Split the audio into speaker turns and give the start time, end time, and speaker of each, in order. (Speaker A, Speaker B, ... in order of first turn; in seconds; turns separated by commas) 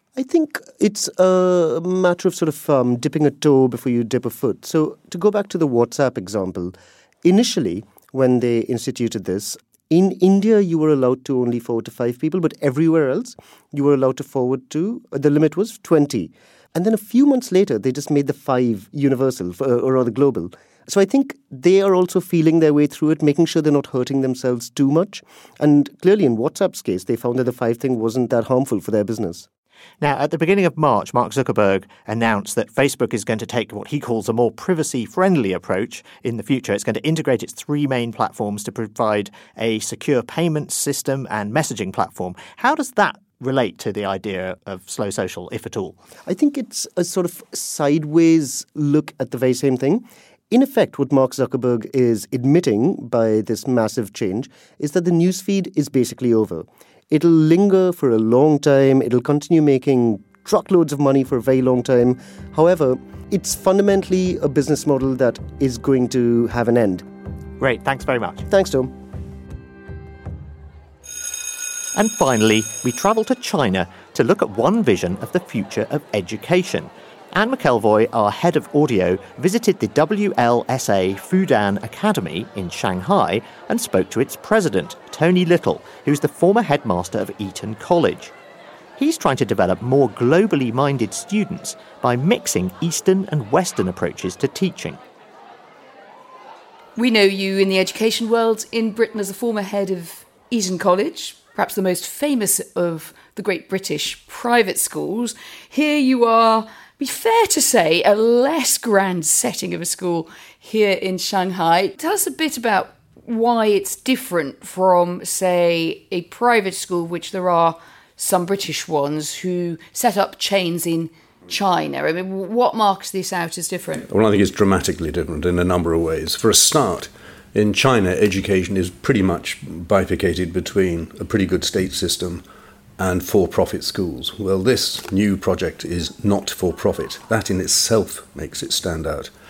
Speaker A: 0.1-29.5, Speaker B: 30.0-46.0, Speaker A: 46.2-67.0, Speaker B: 67.6-68.5, Speaker A: 68.5-68.9, Speaker B: 71.9-88.3, Speaker B: 89.0-95.0, Speaker C: 97.0-124.0, Speaker D: 124.1-132.4, Speaker D: 133.0-139.3